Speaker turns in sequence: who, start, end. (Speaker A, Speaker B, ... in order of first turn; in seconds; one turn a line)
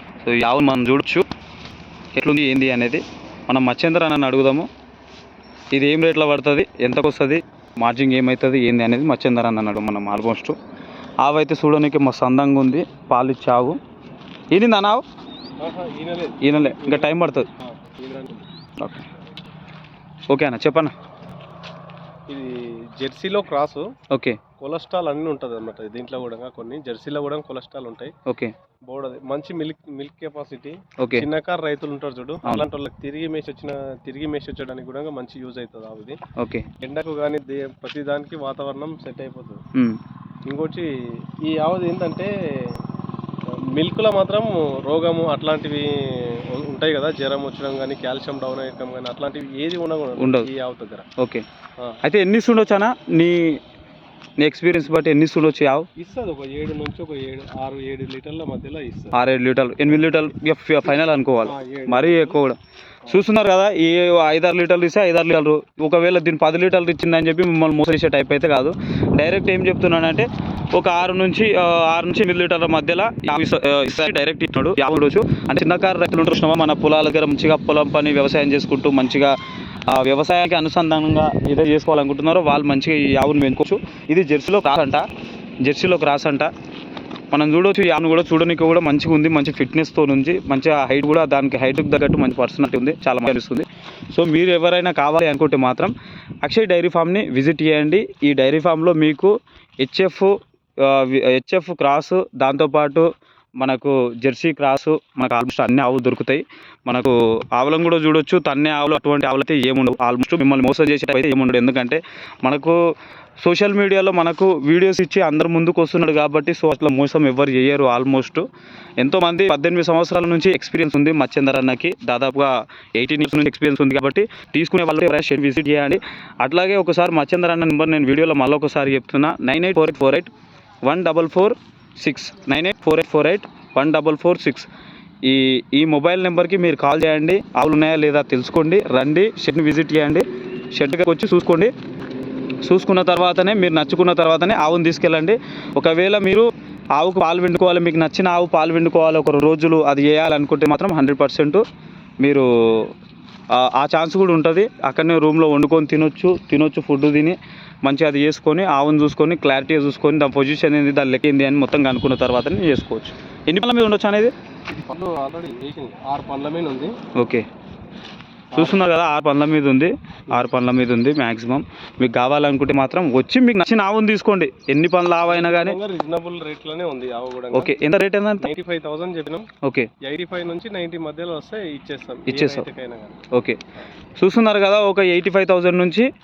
Speaker A: 0.2-1.2
Speaker A: 2.1-4.7
Speaker A: 5.7-10.6
Speaker A: 11.2-13.8
Speaker A: 14.5-15.0
Speaker B: 15.6-18.5
Speaker A: 16.4-17.5
Speaker A: 18.8-19.0
Speaker A: 20.3-20.9
Speaker B: 22.3-23.9
Speaker A: 24.1-24.4
Speaker B: 24.6-28.1
Speaker A: 28.3-28.5
Speaker B: 28.9-36.2
Speaker A: 31.0-31.2
Speaker A: 36.4-36.7
Speaker B: 36.8-39.6
Speaker B: 40.5-40.9
Speaker B: 41.4-42.8
Speaker B: 43.7-51.0
Speaker A: 50.2-50.5
Speaker A: 51.2-51.4
Speaker A: 52.0-53.6
Speaker A: 54.4-55.9
Speaker B: 56.0-59.1
Speaker A: 59.1-62.5
Speaker B: 59.9-60.3
Speaker B: 60.8-62.4
Speaker A: 63.1-79.3
Speaker A: 79.9-85.0
Speaker A: 85.6-86.5
Speaker A: 87.3-95.9
Speaker A: 96.4-103.0
Speaker A: 103.6-112.8
Speaker A: 113.4-118.4
Speaker A: 119.0-130.3
Speaker A: 130.8-134.7
Speaker A: 135.2-141.7
Speaker A: 142.6-151.6
Speaker A: 152.2-152.9
Speaker A: 153.5-164.3
Speaker B: 164.7-166.9
Speaker A: 167.2-167.4
Speaker B: 168.5-168.8
Speaker A: 168.6-175.8
Speaker B: 175.3-177.8
Speaker A: 177.5-178.5
Speaker B: 178.4-179.5
Speaker A: 179.6-179.9
Speaker B: 180.0-183.2
Speaker A: 182.3-182.7
Speaker A: 183.3-183.6
Speaker A: 184.2-186.1